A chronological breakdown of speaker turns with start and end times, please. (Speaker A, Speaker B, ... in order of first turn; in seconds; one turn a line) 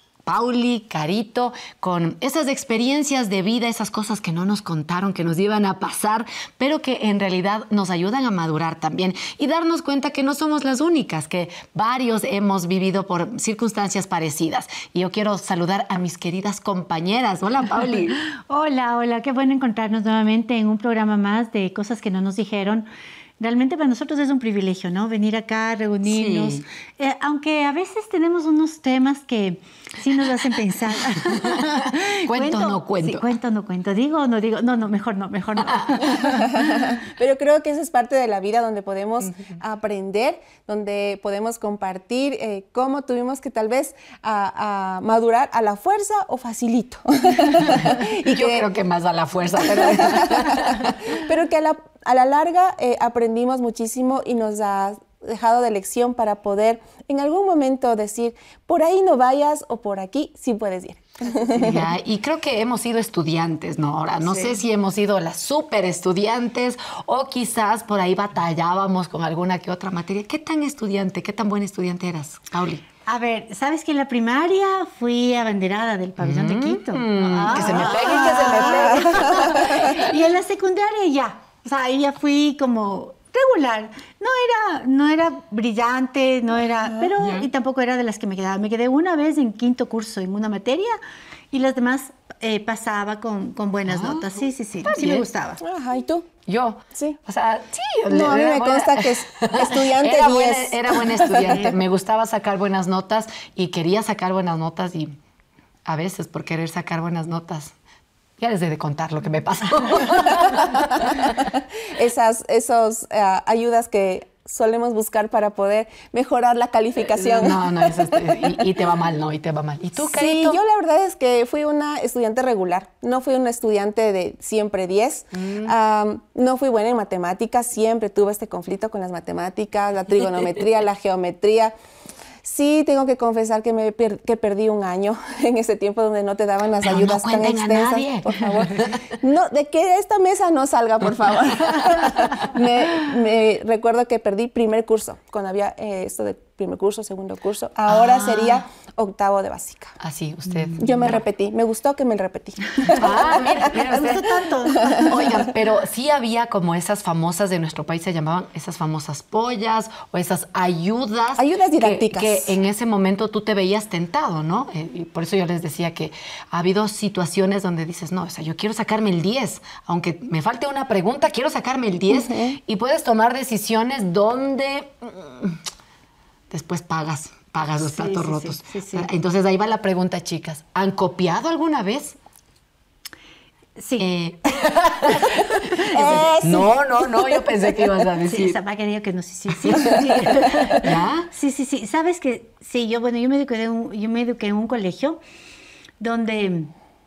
Speaker A: 0.2-18.2
Speaker B: 18.5-22.9
Speaker B: 23.4-36.6
Speaker A: 26.0-26.6
Speaker A: 31.1-33.3
Speaker A: 35.7-36.0
Speaker C: 36.2-48.7
Speaker A: 39.2-39.5
Speaker A: 47.6-51.1
Speaker C: 49.5-61.9
Speaker A: 61.5-72.8
Speaker C: 64.2-64.6
Speaker B: 73.0-91.0
Speaker A: 76.2-80.1
Speaker C: 77.6-79.9
Speaker A: 87.2-87.5
Speaker B: 91.5-95.6
Speaker A: 93.9-95.2
Speaker C: 95.6-96.3
Speaker A: 96.5-105.1
Speaker C: 96.9-97.2
Speaker C: 98.1-101.8
Speaker A: 105.8-107.7
Speaker A: 108.4-111.4
Speaker C: 110.4-118.7
Speaker A: 117.1-120.6
Speaker C: 120.0-131.7
Speaker A: 125.3-125.7
Speaker C: 132.4-149.9
Speaker A: 136.8-139.1
Speaker A: 147.9-148.6
Speaker A: 150.0-151.2
Speaker C: 150.8-154.1
Speaker A: 152.8-175.6
Speaker B: 153.6-155.3
Speaker C: 154.7-155.3
Speaker C: 161.4-162.6
Speaker C: 172.1-172.6
Speaker A: 176.5-182.2
Speaker B: 177.8-179.1
Speaker B: 183.8-184.1
Speaker A: 184.0-188.6
Speaker B: 185.2-186.3
Speaker C: 185.9-187.8
Speaker B: 188.2-195.2
Speaker A: 189.6-191.3
Speaker B: 196.0-196.7